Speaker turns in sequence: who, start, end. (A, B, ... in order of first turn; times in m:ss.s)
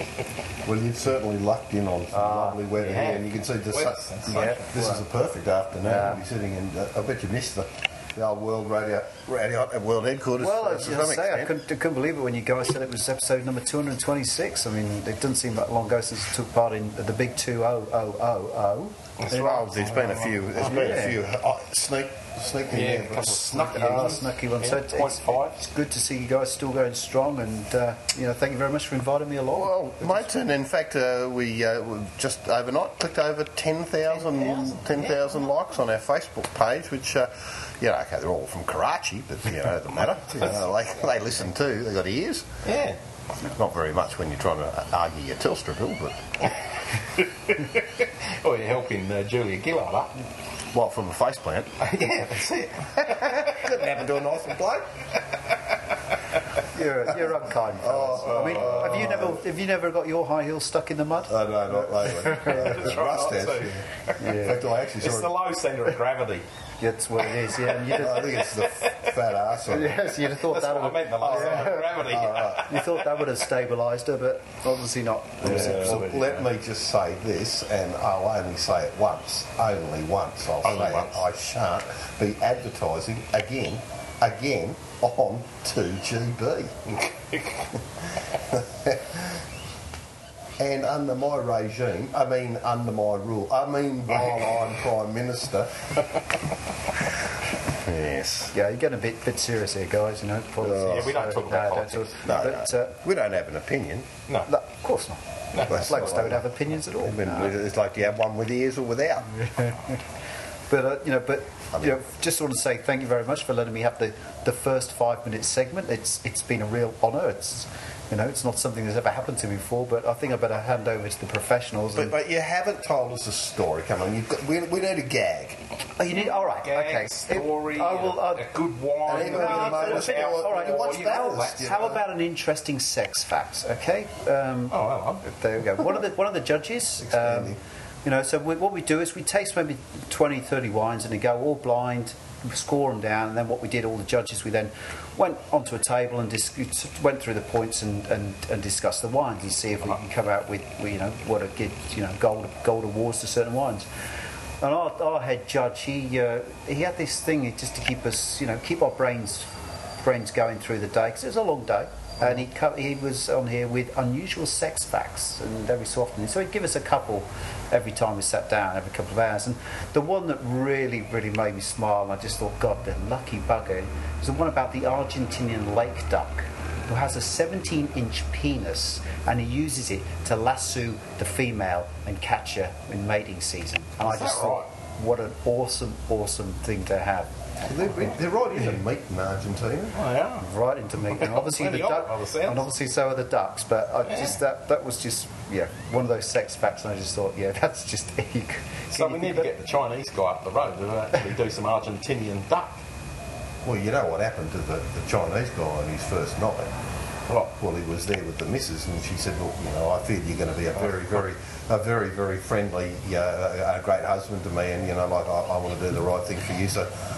0:00.6-0:11.5 A
0:02.1-0:02.6 B
0:02.8-0:04.6 C
0:04.3-0:05.0 B
0:05.8-0:06.2 B
0:10.4-0:19.0 B
0:19.2-0:20.8 C
0:19.3-0:24.2 A
0:20.6-0:21.2 B
0:22.7-0:25.5 C
0:23.5-0:30.3 B
0:29.5-0:42.5 A
0:34.3-0:35.2 C
0:42.6-0:43.0 C
0:43.4-0:46.2 A
0:46.4-0:50.1 C
0:50.7-0:52.0 A
0:51.8-0:53.7 C
0:53.0-0:55.0 A
0:56.6-1:02.7 B
0:57.7-0:59.4 A
0:58.2-0:59.1 C
1:01.3-1:05.3 A
1:02.4-1:04.4 C
1:04.2-1:04.6 B
1:05.0-1:06.4 C
1:06.8-1:08.4 B
1:07.2-1:09.2 C
1:07.9-1:10.1 A
1:09.7-1:16.0 B
1:10.2-1:13.0 C
1:11.2-1:12.8 A
1:15.4-1:26.8 A
1:15.4-1:16.4 C
1:20.6-1:21.2 C
1:26.9-1:27.8 C
1:28.5-1:29.4 A
1:30.6-1:36.0 A
1:37.7-1:38.5 A
1:38.5-1:43.0 B
1:40.6-1:41.2 A
1:40.6-1:42.4 C
1:42.2-1:44.1 A
1:44.4-1:47.6 B
1:45.5-1:46.1 C
1:45.6-1:49.4 A
1:49.4-1:49.8 B
1:50.7-2:02.1 B
1:51.7-1:52.0 A
2:01.9-2:05.6 A
2:06.0-2:08.4 B
2:06.5-2:11.9 C
2:09.0-2:12.0 A
2:09.1-2:33.9 B
2:14.7-2:15.2 C
2:17.0-2:17.6 A
2:34.6-2:39.5 B
2:40.0-3:07.3 B
3:04.0-3:04.6 C
3:07.6-3:10.0 A
3:09.9-3:10.4 C
3:10.4-3:19.5 B
3:11.1-3:12.8 C
3:14.0-3:14.4 C
3:18.9-3:22.8 C
3:23.6-3:26.7 A
3:27.5-3:36.9 A